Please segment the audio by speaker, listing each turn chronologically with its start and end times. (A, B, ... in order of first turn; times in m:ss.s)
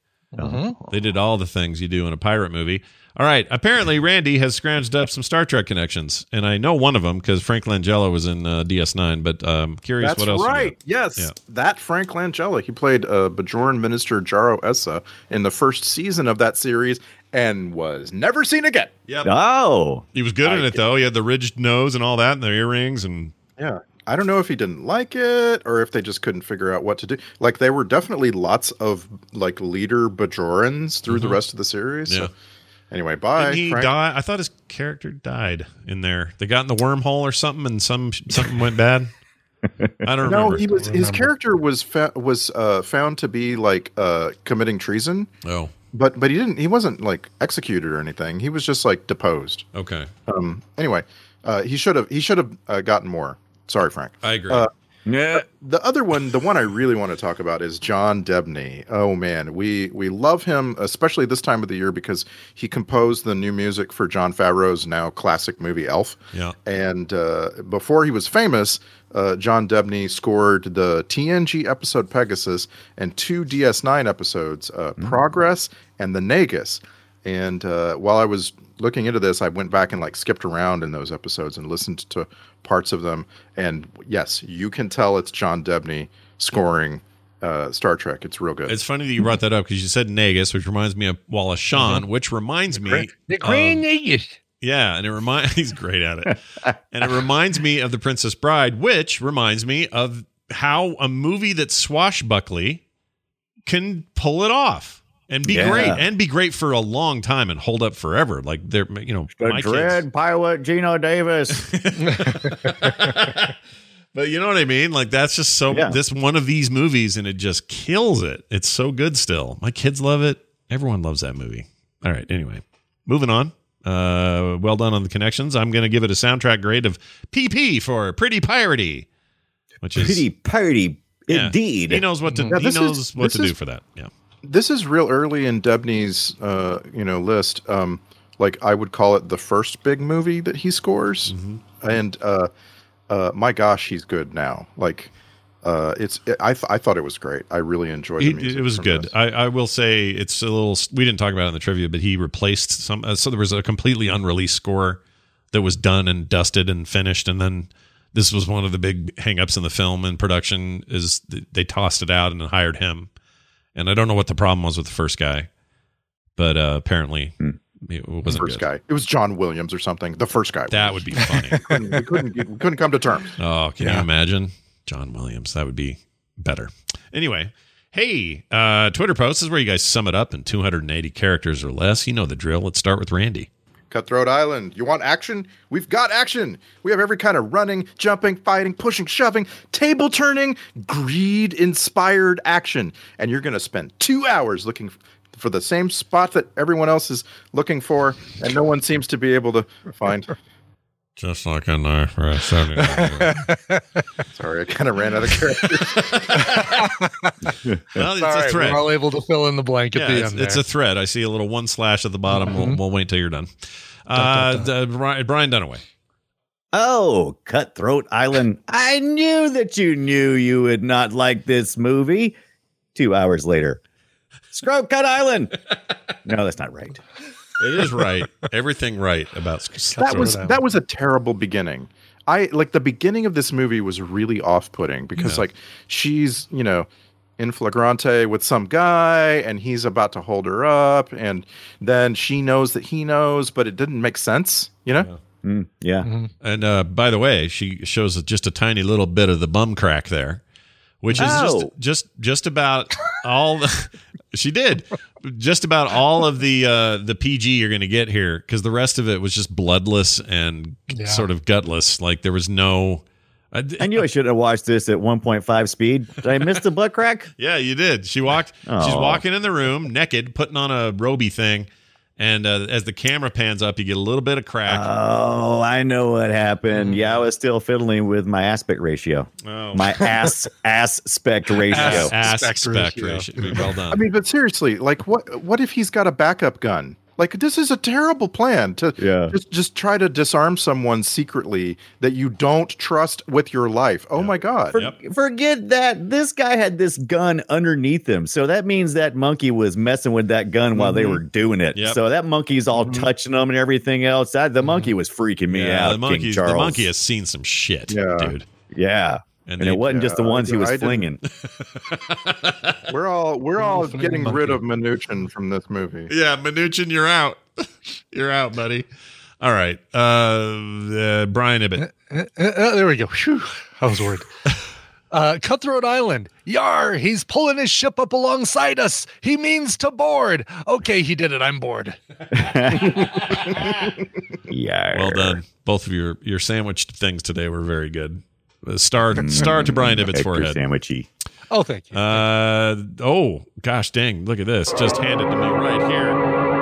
0:00.3-0:00.7 A
0:00.4-0:00.9 B
0:00.9-0:11.3 C
0:10.0-0:18.9 D
0:19.1-0:19.3 C
0:19.2-0:20.0 B
0:20.1-0:23.3 C
0:20.4-0:20.8 D
0:23.6-0:32.3 D
0:31.1-0:31.4 C
0:32.9-0:33.9 D
0:33.4-0:39.1 C
0:39.8-0:40.1 B
0:40.0-0:40.7 C
0:40.2-0:45.3 D
0:40.8-0:41.3 A
0:45.4-0:45.7 C
0:45.9-0:49.6 D
0:49.7-0:50.1 C
0:50.3-0:54.7 D
0:54.2-0:54.7 C
0:55.0-0:55.4 B
0:55.3-1:28.7 D
1:28.7-1:33.8 C
1:32.8-1:34.3 A
1:34.6-1:36.4 C
1:36.6-1:37.1 B
1:36.9-1:42.8 C
1:43.6-1:50.0 C
1:45.4-1:46.0 B
1:49.4-1:51.7 B
1:51.5-1:53.5 C
1:52.0-1:52.9 A
1:54.1-2:09.1 C
1:55.7-1:56.0 B
2:09.8-2:10.2 C
2:10.0-2:12.0 B
2:11.3-2:14.1 C
2:12.4-2:13.5 D
2:14.4-2:22.5 D
2:21.3-2:21.6 C
2:23.1-2:25.1 D
2:25.6-2:29.1 D
2:28.2-2:35.0 C
2:35.5-2:43.1 C
2:43.7-2:45.5 C
2:46.4-2:48.6 C
2:48.3-2:53.3 D
2:50.7-2:51.7 C
2:53.4-3:03.5 C
3:03.9-3:20.3 D
3:21.2-3:23.4 C
3:22.8-3:23.8 A
3:24.3-3:26.2 D
3:26.0-3:26.8 C
3:26.3-3:27.3 A
3:27.6-3:28.0 B
3:27.9-3:28.9 C
3:28.2-3:30.6 A
3:29.9-3:33.5 C
3:32.3-3:32.8 A
3:34.0-3:35.8 C
3:36.7-3:42.4 B
3:42.9-3:43.8 B
3:44.5-3:45.5 B
3:46.2-3:47.0 B
3:47.6-3:50.4 C
3:49.9-3:50.6 A
3:50.0-3:56.9 D
3:55.2-3:55.4 C
3:57.4-4:05.1 D
4:05.4-4:06.1 B
4:06.0-4:06.3 A
4:06.4-4:10.4 C
4:11.0-4:24.0 C
4:11.1-4:11.7 B
4:20.9-4:21.2 A
4:23.8-4:27.3 B
4:27.4-4:34.9 C
4:28.6-4:29.2 B
4:34.6-4:42.1 B
4:39.4-4:40.2 C
4:41.7-4:43.3 A
4:41.7-4:44.0 C
4:43.9-4:54.8 D
4:49.0-4:49.4 B
4:54.1-4:55.0 C
4:54.7-5:06.9 B
5:00.8-5:01.2 D
5:01.7-5:02.0 C
5:02.8-5:03.1 D
5:05.5-5:08.4 C
5:07.9-5:08.3 D
5:08.7-5:11.2 B
5:09.5-5:10.0 C
5:09.9-5:11.1 D
5:11.3-5:12.9 C
5:12.9-5:16.1 D
5:13.6-5:14.6 A
5:16.1-5:18.9 C
5:19.4-5:21.8 C
5:21.8-5:24.2 A
5:25.1-5:32.0 A
5:32.3-5:33.9 B
5:33.3-5:33.6 C
5:34.5-5:35.4 B
5:34.9-5:40.6 C
5:39.1-5:41.1 B
5:41.5-5:42.2 A
5:41.9-5:46.2 C